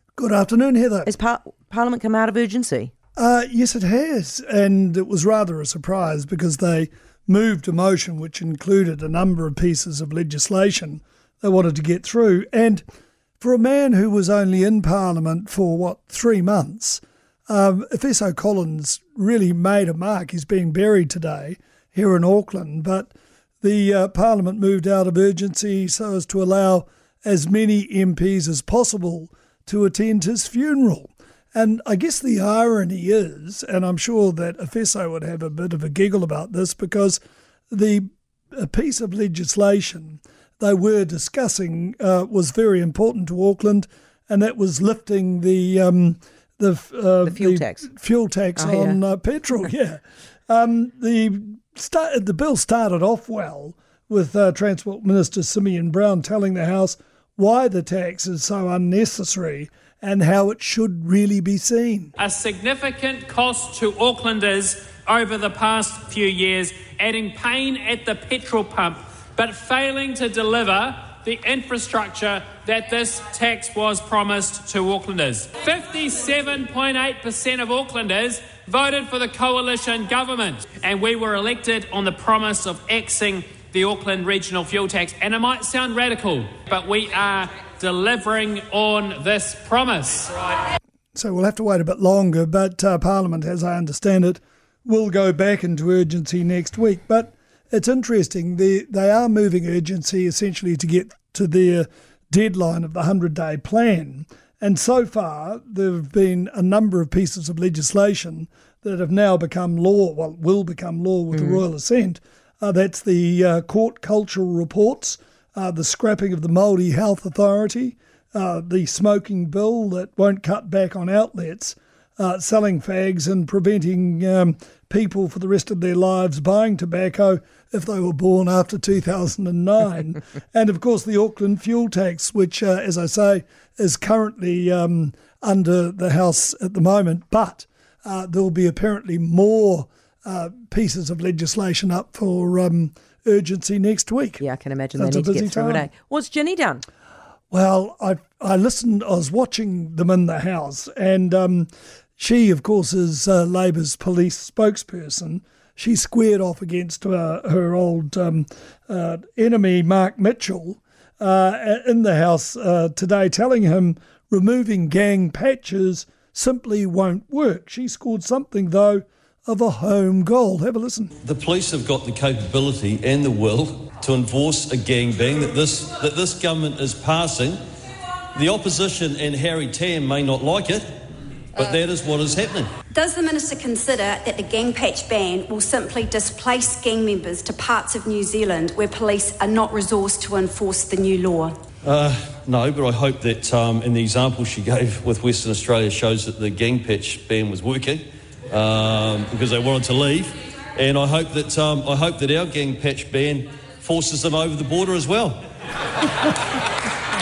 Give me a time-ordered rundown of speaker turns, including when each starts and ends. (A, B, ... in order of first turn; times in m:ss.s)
0:00.2-0:01.1 A
0:01.1-0:02.9 B
0:03.2-0:12.8 A
0:13.4-0:37.2 A
0:37.7-1:02.1 A
0:47.2-0:47.9 B
0:48.6-0:49.0 B
1:02.2-1:30.6 C
1:31.1-2:24.4 A
1:51.4-1:51.6 B
2:24.4-2:26.8 B
2:25.0-2:25.9 A
2:27.5-2:51.1 A
2:51.2-2:57.6 D
2:58.4-3:00.9 D
3:01.6-3:02.7 D
3:02.9-3:11.6 E
3:11.8-3:25.4 D